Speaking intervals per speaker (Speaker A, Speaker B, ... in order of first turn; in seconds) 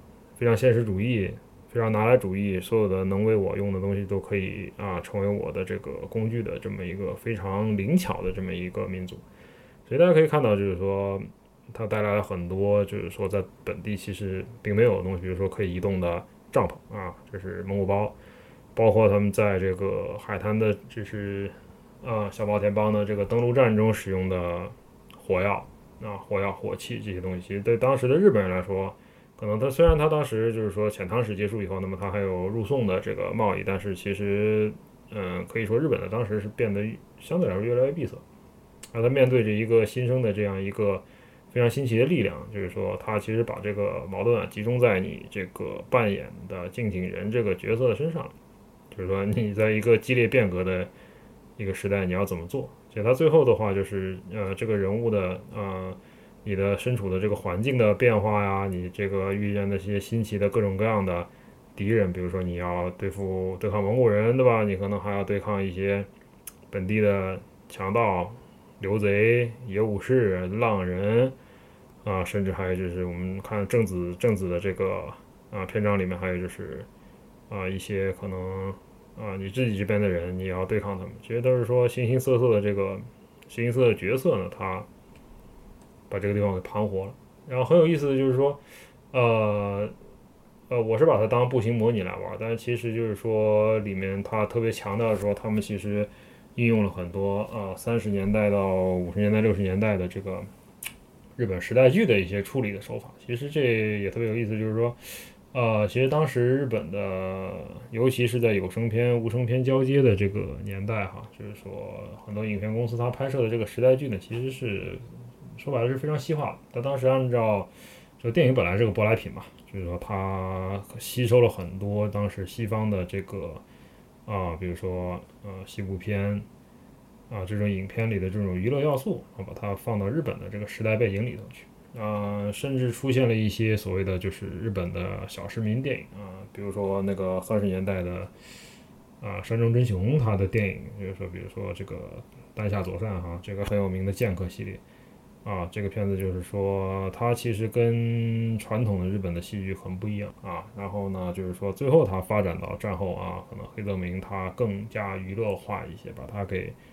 Speaker A: 0.4-9.2, 9.9-18.1, 18.7-38.2, 38.9-48.3, 48.9-50.9, 51.6-66.1, 66.7-71.3, 72.0-76.9, 77.5-84.9, 86.1-88.6, 89.1-89.9, 90.7-100.5, 101.4-105.0, 105.5-123.6, 124.2-126.5, 127.3-138.3, 139.2-144.8, 145.4-156.8